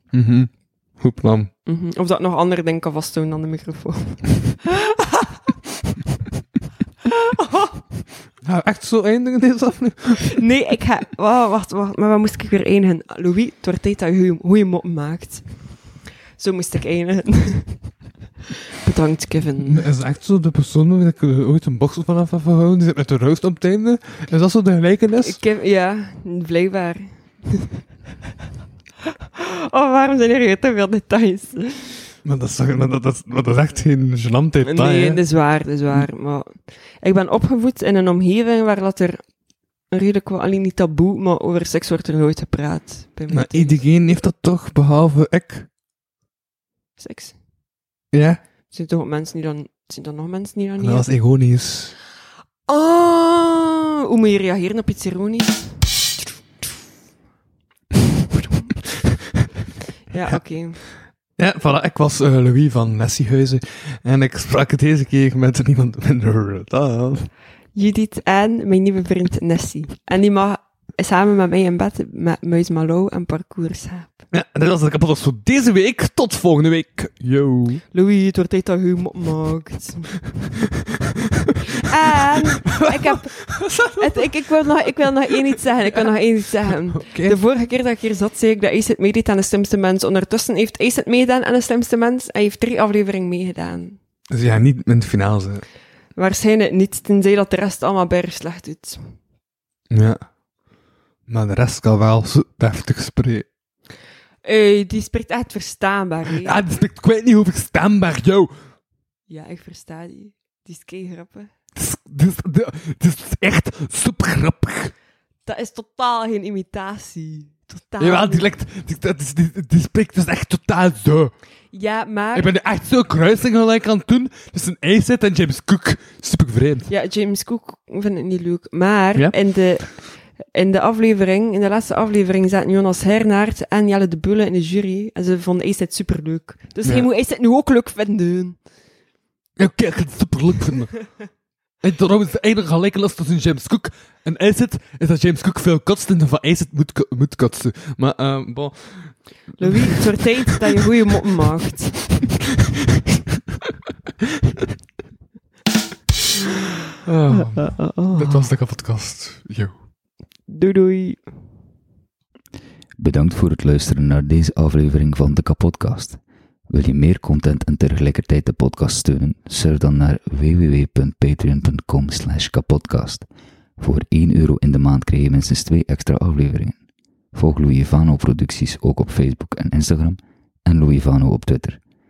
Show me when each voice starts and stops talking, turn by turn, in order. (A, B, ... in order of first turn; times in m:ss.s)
0:00.1-0:01.5 A
0:01.6-0:05.4 B
0:07.3-0:07.8 B
0:08.4-0:10.4 A
0:10.3-0:18.0 B
0:18.8-0:19.8 B
0:19.7-0:25.4 A
0:25.2-0:27.8 B
0:29.4-0:32.0 B
0:32.2-0:35.2 A
0:34.6-0:39.3 B
0:39.9-0:43.8 B
0:43.3-0:45.7 A
0:47.0-0:47.4 B
0:48.1-0:48.4 A
0:48.7-0:51.1 B
0:50.8-0:51.9 A
0:52.7-0:55.8 B
1:00.1-1:00.8 B
1:01.4-1:07.3 A
1:07.8-1:14.2 B
1:14.3-1:17.8 A
1:17.9-1:20.2 B
1:21.7-1:34.0 B
1:22.6-1:24.3 A
1:26.7-1:27.4 A
1:34.3-1:35.6 A
1:36.2-1:39.1 B
1:39.9-1:40.2 A
1:41.3-1:43.5 A
1:44.4-1:46.6 B
1:46.4-1:48.5 A
1:49.3-1:51.5 B
1:51.8-1:54.9 A
1:55.5-1:58.5 B
1:58.0-2:01.3 A
2:01.7-2:02.5 B
2:02.3-2:06.9 A
2:06.9-2:18.6 B
2:19.6-2:21.2 A
2:21.8-2:30.5 A
2:29.6-2:32.1 B
2:37.0-2:39.8 A
2:37.5-2:38.5 B
2:40.5-2:41.2 B
2:43.0-2:53.3 C
2:53.8-2:56.8 C
2:57.3-3:01.8 C